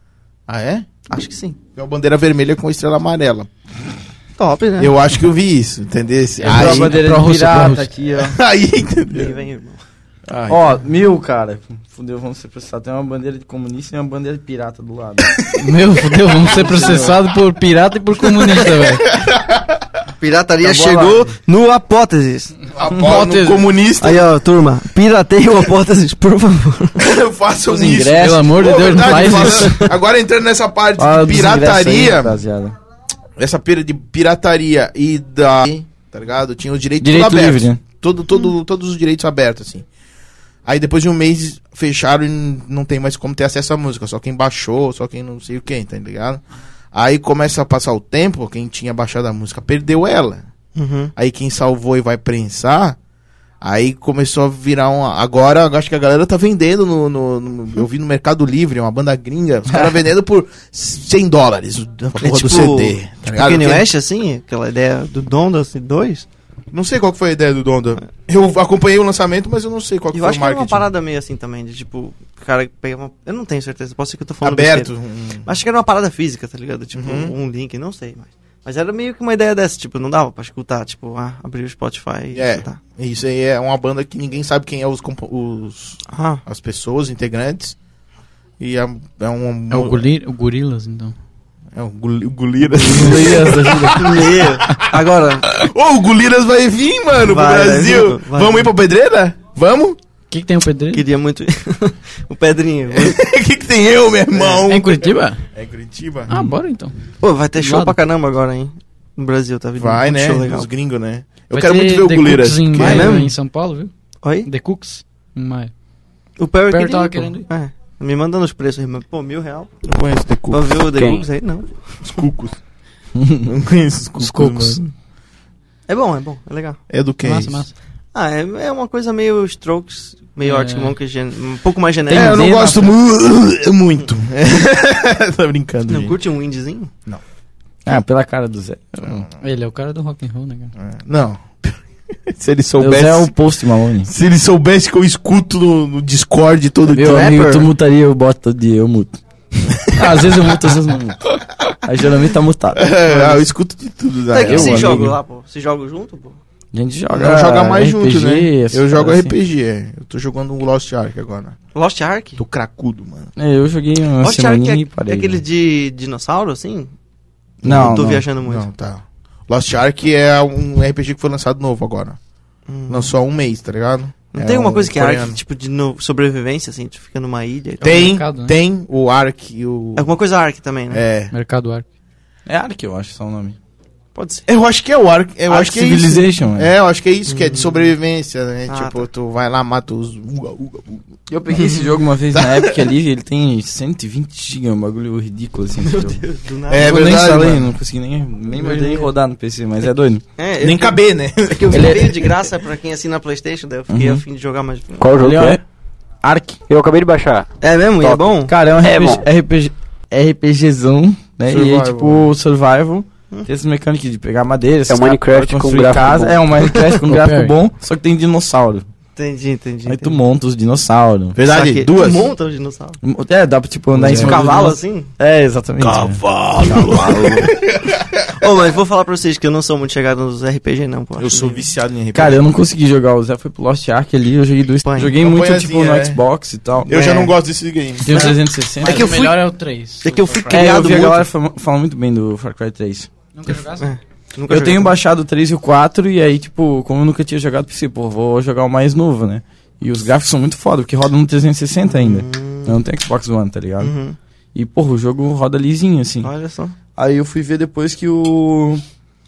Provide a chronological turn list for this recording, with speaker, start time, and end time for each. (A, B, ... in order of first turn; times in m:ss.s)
0:00.5-0:00.9 A
0:01.1-0:01.6 B
0:01.8-0:03.5 A
0:04.4-0:04.9 B
0:04.8-0:07.0 A
0:06.4-0:08.4 C
0:06.4-0:07.9 D
0:08.2-0:09.4 A
0:09.1-0:09.8 B
0:10.3-0:10.7 A
0:10.5-0:15.4 C
0:15.4-0:16.7 A
0:15.6-0:19.1 D
0:16.5-0:17.2 C
0:18.8-0:19.8 A
0:20.2-0:22.5 B
0:20.6-0:21.3 C
0:22.8-0:24.3 A
0:22.9-0:23.6 D
0:24.0-0:27.0 B
0:27.0-0:32.4 A
0:27.7-0:29.9 D
0:28.0-0:28.4 C
0:29.1-0:29.9 B
0:31.0-0:32.8 C
0:33.4-0:39.9 A
0:37.0-0:37.8 C
0:40.7-0:50.4 A
0:50.8-0:51.1 B
0:51.2-0:53.0 A
0:53.6-1:03.9 A
1:02.2-1:06.3 B
1:06.7-1:10.9 A
1:10.1-1:14.9 B
1:14.4-1:15.5 A
1:15.4-1:22.8 B
1:16.9-1:17.3 A
1:22.3-1:27.8 A
1:26.1-1:26.4 B
1:28.6-1:30.1 A
1:29.7-1:31.2 D
1:31.8-1:34.8 A
1:32.8-1:34.0 C
1:33.0-1:33.3 B
1:33.0-1:33.9 D
1:33.9-1:35.6 B
1:35.5-1:40.0 A
1:37.2-1:38.7 B
1:40.3-1:41.1 D
1:40.9-1:43.2 B
1:42.9-1:46.3 A
1:44.3-1:44.6 B
1:44.7-1:45.4 D
1:46.3-1:47.0 D
1:47.2-1:50.7 B
1:47.6-1:48.0 D
1:49.8-1:53.2 A
1:51.5-1:53.9 D
1:52.8-1:53.3 B
1:54.2-1:54.5 B
1:54.4-1:55.7 D
1:56.4-1:59.7 B
1:56.7-1:57.4 D
1:59.8-2:00.7 A
2:00.5-2:02.1 B
2:01.0-2:01.2 E
2:02.0-2:02.6 A
2:03.2-2:03.5 C
2:03.4-2:04.8 A
2:04.2-2:04.8 C
2:05.9-2:06.8 B
2:06.9-2:07.6 A
2:07.2-2:07.7 D
2:08.1-2:12.5 B
2:10.4-2:11.0 D
2:12.1-2:12.9 C
2:12.1-2:16.2 A
2:15.9-2:16.9 B
2:17.8-2:19.2 C
2:19.4-2:20.7 D
2:20.8-2:23.3 A
2:22.8-2:24.1 C
2:24.0-2:27.4 A
2:26.9-2:29.2 C
2:27.0-2:27.7 B
2:29.7-2:30.4 A
2:29.9-2:31.2 C
2:31.8-2:33.0 C
2:32.8-2:35.1 A
2:34.3-2:36.4 B
2:34.5-2:35.2 C
2:36.7-2:39.4 C
2:37.1-2:41.6 A
2:41.8-2:42.4 B
2:42.4-2:43.3 A
2:43.4-2:45.4 C
2:44.2-2:46.9 B
2:47.6-2:48.7 B
2:47.6-2:48.2 C
2:48.4-2:52.2 A
2:52.7-2:53.1 B
2:52.9-2:55.4 A
2:54.3-2:58.2 B
2:57.8-2:58.6 D
2:57.8-3:00.1 A
3:00.0-3:01.0 B
3:00.9-3:01.3 A
3:01.3-3:01.8 D
3:02.5-3:03.6 C
3:04.2-3:04.4 B
3:04.5-3:11.1 A
3:05.5-3:06.7 C
3:07.3-3:07.9 B
3:08.7-3:09.0 B
3:11.3-3:16.2 C
3:11.6-3:11.8 B
3:12.3-3:12.8 A
3:15.8-3:17.3 B
3:16.7-3:17.7 A
3:16.8-3:20.2 C
3:18.5-3:19.1 D
3:20.4-3:25.1 B
3:20.6-3:21.9 A
3:21.7-3:22.3 C
3:23.9-3:24.2 C
3:25.0-3:25.6 E
3:25.2-3:25.6 C
3:26.2-3:26.6 C
3:26.7-3:27.5 E
3:27.6-3:28.5 B
3:28.0-3:29.2 E
3:28.5-3:38.8 C
3:31.5-3:32.3 A
3:34.9-3:36.4 E
3:37.0-3:37.5 D
3:39.2-3:40.2 B
3:39.9-3:41.4 C
3:41.4-3:42.3 A
3:41.5-3:43.0 B
3:43.0-3:47.5 C
3:44.0-3:44.5 A
3:44.0-3:45.1 B
3:45.8-3:48.5 A
3:48.3-3:51.6 B
3:51.2-3:52.4 A
3:52.1-3:57.0 C
3:54.8-3:55.1 B
3:55.2-3:56.2 A
3:56.8-3:58.3 A
3:56.9-3:57.3 B
3:58.1-3:59.3 C
3:58.1-4:00.7 D
3:58.1-3:59.4 B
4:00.0-4:01.2 B
4:00.5-4:03.1 C
4:03.3-4:03.9 D
4:03.7-4:05.0 B
4:04.5-4:13.9 C
4:11.9-4:12.8 B
4:13.8-4:14.2 B
4:14.5-4:16.3 C
4:16.2-4:16.8 B
4:17.0-4:18.8 C